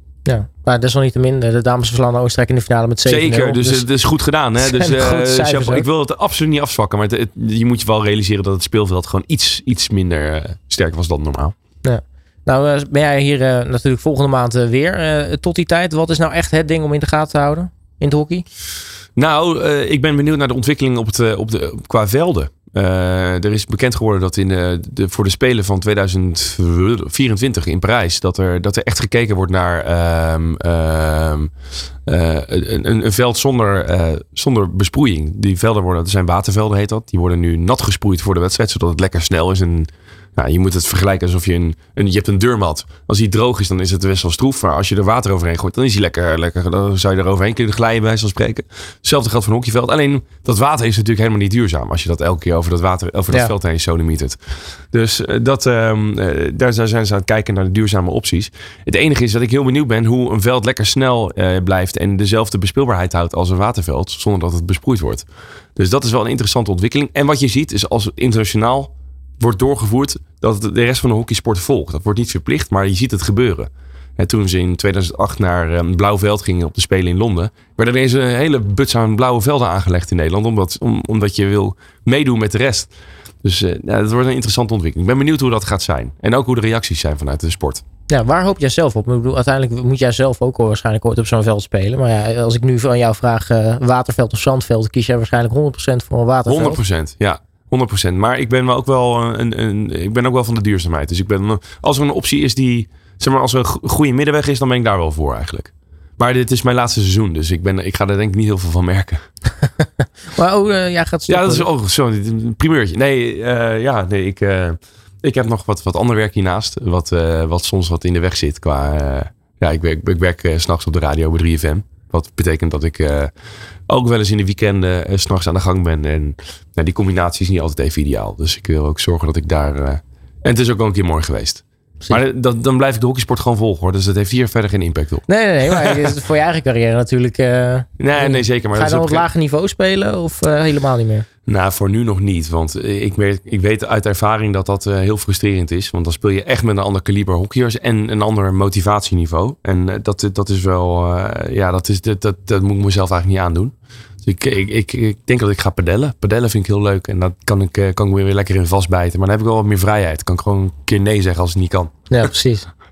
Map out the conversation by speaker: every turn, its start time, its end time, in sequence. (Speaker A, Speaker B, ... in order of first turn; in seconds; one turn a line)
Speaker A: 0.2-3.9
Speaker B: 3.0-11.5
Speaker A: 4.6-5.8
Speaker A: 11.8-18.4
Speaker B: 19.1-31.5
Speaker B: 32.1-54.4
Speaker B: 54.9-82.9
Speaker B: 83.4-87.8
Speaker A: 88.1-96.8
Speaker B: 96.5-109.2
Speaker A: 110.3-111.7
Speaker B: 111.3-123.3
Speaker B: 123.9-136.0
Speaker A: 135.3-141.2
Speaker B: 138.0-139.3
Speaker B: 141.5-161.9
Speaker A: 162.1-162.7